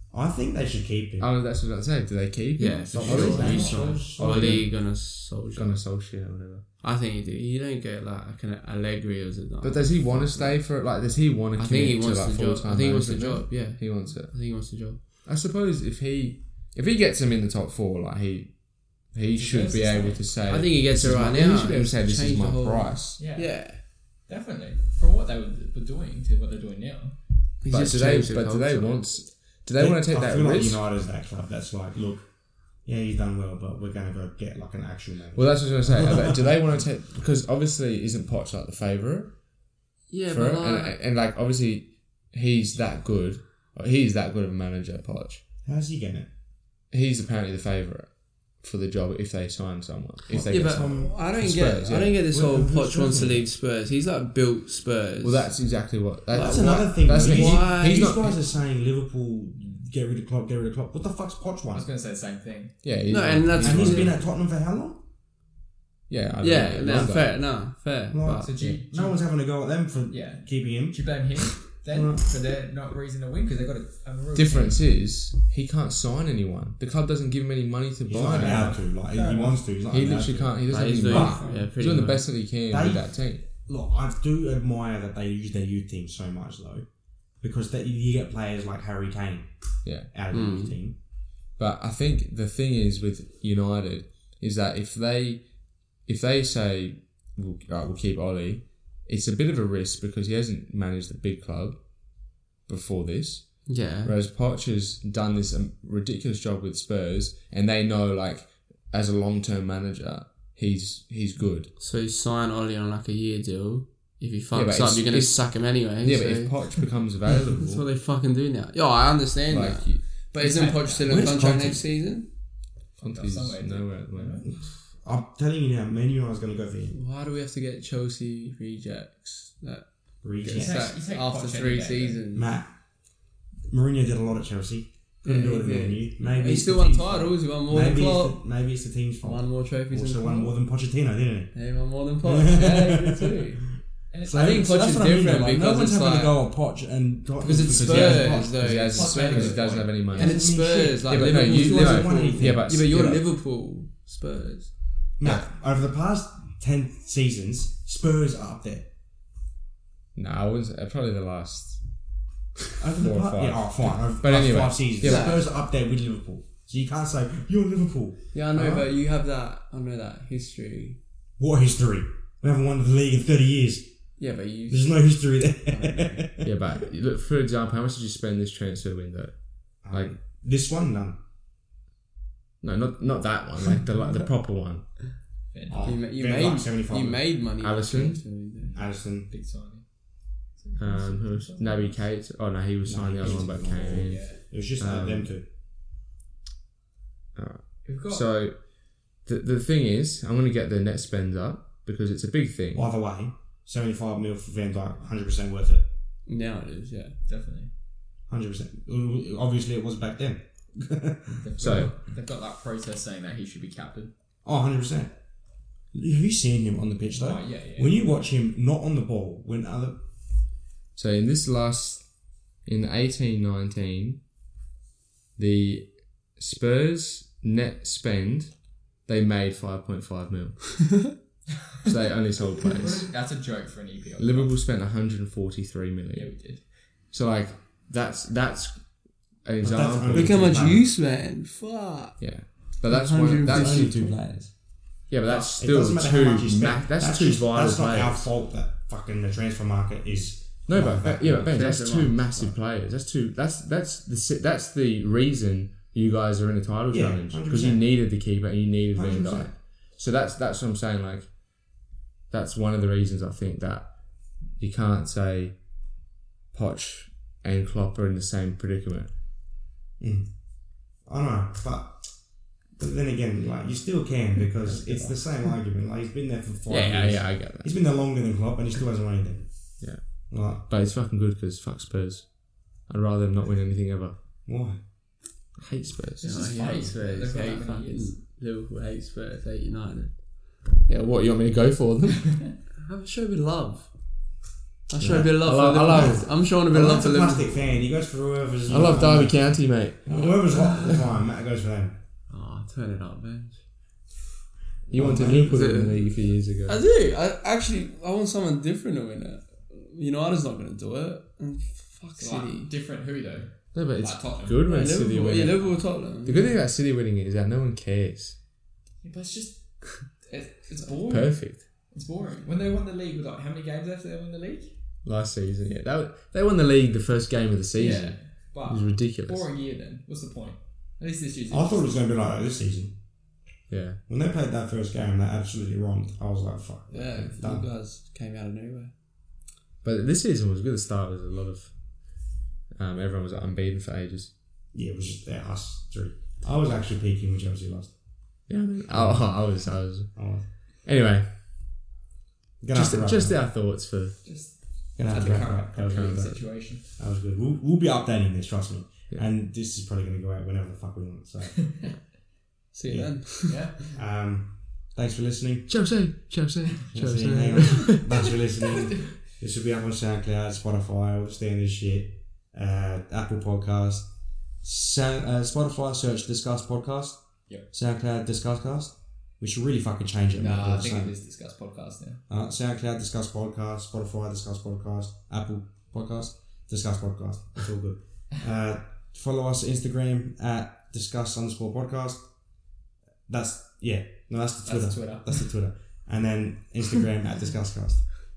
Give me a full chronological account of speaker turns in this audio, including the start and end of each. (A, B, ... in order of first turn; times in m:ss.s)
0:00.1-0:01.3 A
0:01.2-0:04.7 B
0:02.6-0:05.8 C
0:02.9-0:04.6 A
0:03.1-0:04.1 D
0:05.5-0:06.6 B
0:06.8-0:10.6 C
0:09.6-0:14.3 B
0:11.6-0:15.0 C
0:15.2-0:23.0 B
0:19.4-0:20.3 D
0:20.5-0:23.8 C
0:23.2-0:27.2 D
0:27.6-0:29.0 C
0:27.7-0:30.8 B
0:29.7-0:32.3 A
0:32.8-0:36.5 A
0:35.3-0:39.4 B
0:40.1-0:41.0 C
0:40.3-0:45.4 B
0:45.6-0:46.3 A
0:46.9-0:52.2 B
0:50.3-0:51.2 A
0:50.4-0:55.5 C
0:52.3-0:53.4 A
0:55.2-0:58.4 B
0:56.3-0:58.2 C
0:56.3-1:01.9 A
0:59.6-0:59.9 D
1:01.7-1:02.7 D
1:02.8-1:04.2 B
1:03.1-1:04.1 C
1:03.6-1:05.0 A
1:06.1-1:07.4 B
1:06.4-1:08.5 C
1:08.1-1:11.2 A
1:08.4-1:09.2 D
1:10.1-1:14.8 D
1:11.8-1:12.3 A
1:14.3-1:18.8 B
1:18.0-1:21.5 A
1:18.2-1:19.6 D
1:19.9-1:23.4 B
1:20.7-1:22.2 C
1:21.1-1:21.7 D
1:22.7-1:26.8 A
1:27.4-1:29.5 A
1:29.8-1:30.1 B
1:30.0-1:31.0 A
1:30.3-1:30.8 C
1:31.6-1:35.5 B
1:36.0-1:41.8 B
1:42.7-1:51.7 B
1:43.6-1:44.1 C
1:51.8-1:56.9 C
1:54.5-1:57.8 B
1:57.5-2:02.3 C
1:59.5-2:00.0 B
2:00.4-2:01.2 D
2:01.1-2:01.8 A
2:03.0-2:04.5 D
2:03.0-2:04.5 B
2:04.4-2:07.0 A
2:06.9-2:12.5 C
2:10.2-2:10.9 A
2:10.5-2:12.2 D
2:12.3-2:12.8 A
2:13.7-2:21.5 A
2:15.2-2:18.4 C
2:19.2-2:20.5 C
2:21.5-2:23.6 C
2:22.2-2:23.5 A
2:24.1-2:24.7 D
2:24.2-2:28.8 A
2:24.3-2:26.4 C
2:27.4-2:34.7 C
2:27.7-2:30.4 B
2:28.9-2:30.1 D
2:30.1-2:32.8 A
2:31.0-2:33.2 B
2:35.2-2:38.9 A
2:40.1-2:41.8 B
2:42.8-2:48.9 A
2:43.0-2:45.3 B
2:45.0-2:45.4 C
2:48.3-2:51.0 C
2:51.4-2:54.1 A
2:54.2-2:55.0 C
2:54.7-2:56.5 A
2:55.6-2:56.2 C
2:56.4-3:00.1 B
2:59.8-3:01.2 A
3:02.6-3:04.9 B
3:05.5-3:05.9 D
3:05.7-3:07.2 A
3:05.8-3:08.7 C
3:07.6-3:08.3 B
3:08.6-3:09.8 D
3:08.7-3:09.3 A
3:10.6-3:12.0 D
3:10.8-3:15.3 B
3:12.8-3:15.5 A
3:13.2-3:14.4 D
3:17.3-3:22.9 B
3:17.8-3:18.2 D
3:22.7-3:25.8 A
3:26.2-3:27.2 C
3:27.3-3:27.7 D
3:28.3-3:31.5 A
3:31.4-3:34.1 D
3:31.6-3:31.9 B
3:34.4-3:35.2 A
3:35.9-3:40.0 A
3:37.2-3:38.2 D
3:41.0-3:42.1 B
3:42.6-3:44.2 B
3:45.4-3:51.1 B
3:51.8-3:53.1 B
3:52.7-3:54.5 D
3:54.2-4:00.5 B
3:56.1-3:56.7 D
3:59.6-4:00.8 A
4:00.1-4:02.2 C
4:02.2-4:04.0 B
4:02.8-4:04.1 C
4:03.4-4:04.5 A
4:05.1-4:08.3 B
4:05.3-4:05.5 D
4:05.6-4:12.1 A
4:10.6-4:21.3 B
4:11.4-4:12.4 C
4:16.9-4:17.8 A
4:18.9-4:19.5 A
4:22.3-4:23.9 B
4:24.5-4:25.6 B
4:26.5-4:29.1 B
4:30.0-4:40.6 A
4:34.6-4:35.2 D
4:36.7-4:37.7 B
4:39.8-4:44.1 B
4:44.4-4:44.8 A
4:45.6-4:46.6 B
4:46.2-4:50.2 C
4:46.2-4:48.1 D
4:50.9-4:52.4 B
4:52.8-4:53.9 C
4:54.9-4:57.8 C
4:55.0-4:56.3 B
4:55.9-5:02.0 A
4:58.7-5:00.4 B
5:00.2-5:01.0 C
5:02.3-5:03.6 C
5:04.9-5:06.8 B
5:04.9-5:05.6 A
5:05.3-5:06.0 C
5:06.6-5:12.7 C
5:12.2-5:14.9 D
5:13.7-5:15.7 B
5:14.6-5:16.6 C
5:16.2-5:18.4 B
5:19.0-5:24.8 D
5:21.1-5:21.7 B
5:25.0-5:29.4 B
5:27.8-5:31.9 D
5:31.5-5:33.0 A
5:33.7-5:34.0 B
5:34.1-5:37.7 A
5:36.9-5:38.9 C
5:39.8-5:42.2 B
5:42.7-5:44.3 B
5:44.7-5:48.0 A
5:48.5-5:51.3 B
5:48.9-5:50.5 A
5:52.6-5:53.4 A
5:52.7-5:54.2 B
5:54.2-5:56.8 D
5:55.0-6:02.0 A
6:02.7-6:03.8 C
6:02.9-6:05.9 A
6:03.5-6:03.9 D
6:05.7-6:08.1 B
6:06.9-6:21.1 A
6:07.9-6:09.0 D
6:20.4-6:22.2 D
6:22.3-6:32.7 A
6:33.3-6:38.2 A
6:34.6-6:35.5 D